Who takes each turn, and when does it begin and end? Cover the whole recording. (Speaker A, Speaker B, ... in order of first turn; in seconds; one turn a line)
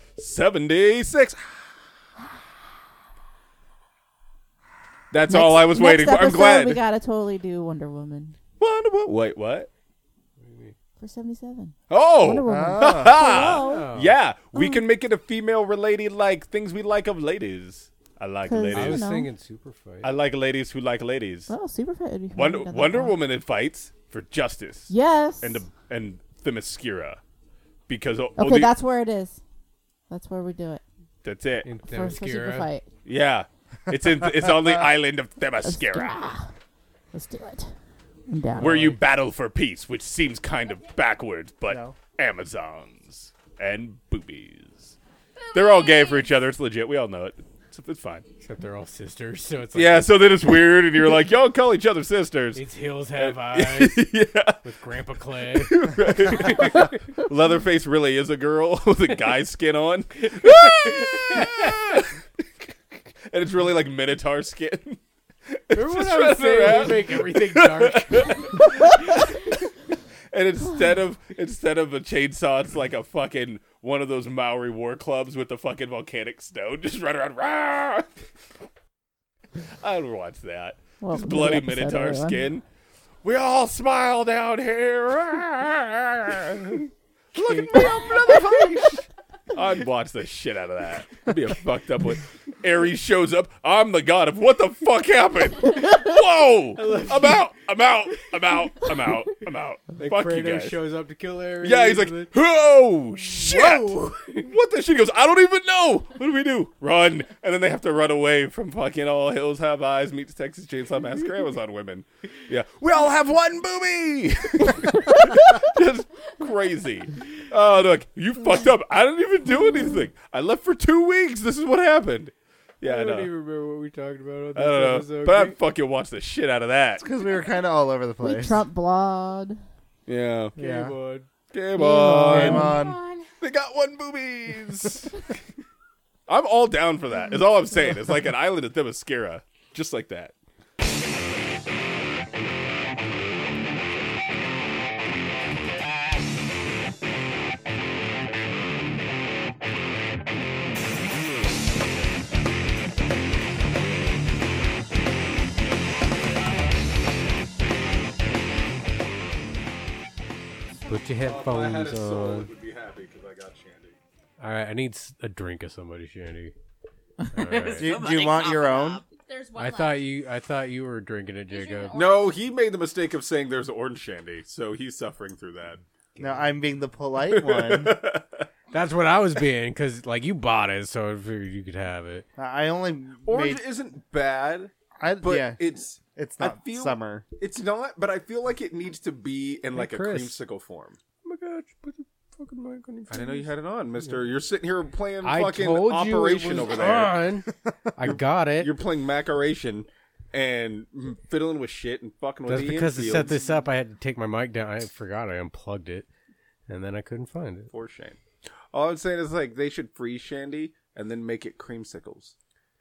Speaker A: 0.2-1.8
Speaker A: 5.1-6.8
Speaker B: 5.3-8.4
Speaker A: 8.6-9.7
Speaker C: 10.4-10.8
Speaker B: 11.0-13.9
Speaker A: 11.9-19.1
Speaker D: 12.5-13.2
Speaker C: 13.4-14.2
Speaker B: 14.6-14.8
Speaker B: 18.5-19.3
Speaker C: 18.7-20.1
Speaker A: 20.0-21.5
Speaker B: 21.5-23.2
Speaker A: 22.3-27.2
Speaker B: 24.9-25.6
Speaker A: 27.9-28.7
Speaker B: 28.4-29.4
Speaker B: 30.1-30.8
Speaker A: 31.2-31.7
Speaker C: 31.6-32.7
Speaker B: 31.9-32.9
Speaker A: 33.0-36.2
Speaker D: 34.4-34.7
Speaker B: 35.6-36.5
Speaker B: 37.1-38.9
Speaker A: 38.6-45.0
Speaker C: 38.6-39.0
Speaker D: 41.7-42.0
Speaker E: 45.4-46.3
Speaker A: 45.5-48.3
Speaker C: 48.4-50.7
Speaker A: 49.8-52.6
Speaker C: 52.5-54.0
Speaker A: 53.2-54.6
Speaker C: 54.6-57.0
Speaker A: 55.4-62.4
Speaker C: 60.2-62.0
Speaker A: 63.2-69.7
Speaker C: 65.7-68.8
Speaker A: 70.3-78.1
Speaker A: 79.8-82.7
Speaker B: 81.0-82.5
Speaker A: 83.2-100.8
Speaker C: 87.3-88.8
Speaker C: 96.8-97.5
Speaker C: 98.1-99.1
Speaker C: 100.0-102.3
Speaker A: 101.6-123.3
Speaker C: 103.3-104.5
Speaker B: 119.7-120.0
Speaker C: 122.8-125.6
Speaker A: 124.6-127.0
Speaker D: 127.0-128.7
Speaker B: 128.2-129.6
Speaker A: 130.1-130.6
Speaker D: 130.6-131.0
Speaker C: 130.6-131.3
Speaker A: 131.5-132.7
Speaker B: 131.8-133.2
Speaker C: 131.8-132.8
Speaker D: 131.8-133.0
Speaker A: 133.4-135.3
Speaker A: 136.3-140.3
Speaker C: 160.8-162.5
Speaker A: 161.2-164.0
Speaker C: 164.4-166.5
Speaker B: 167.2-169.1
Speaker C: 167.3-168.0
Speaker D: 167.8-169.0
Speaker E: 169.1-170.1
Speaker C: 169.6-172.0
Speaker E: 171.5-172.3
Speaker A: 171.9-175.8
Speaker D: 176.2-178.0
Speaker C: 176.2-176.4
Speaker A: 177.2-178.5
Speaker C: 178.7-182.3
Speaker D: 182.4-183.6
Speaker A: 183.2-191.0
Speaker D: 185.0-185.6
Speaker D: 186.1-187.3
Speaker C: 189.7-190.4
Speaker C: 191.2-193.5
Speaker A: 193.1-197.2
Speaker C: 195.2-198.7
Speaker A: 198.1-203.3
Speaker C: 202.5-206.1
Speaker C: 206.7-207.7
Speaker A: 207.7-208.2
Speaker A: 208.7-212.3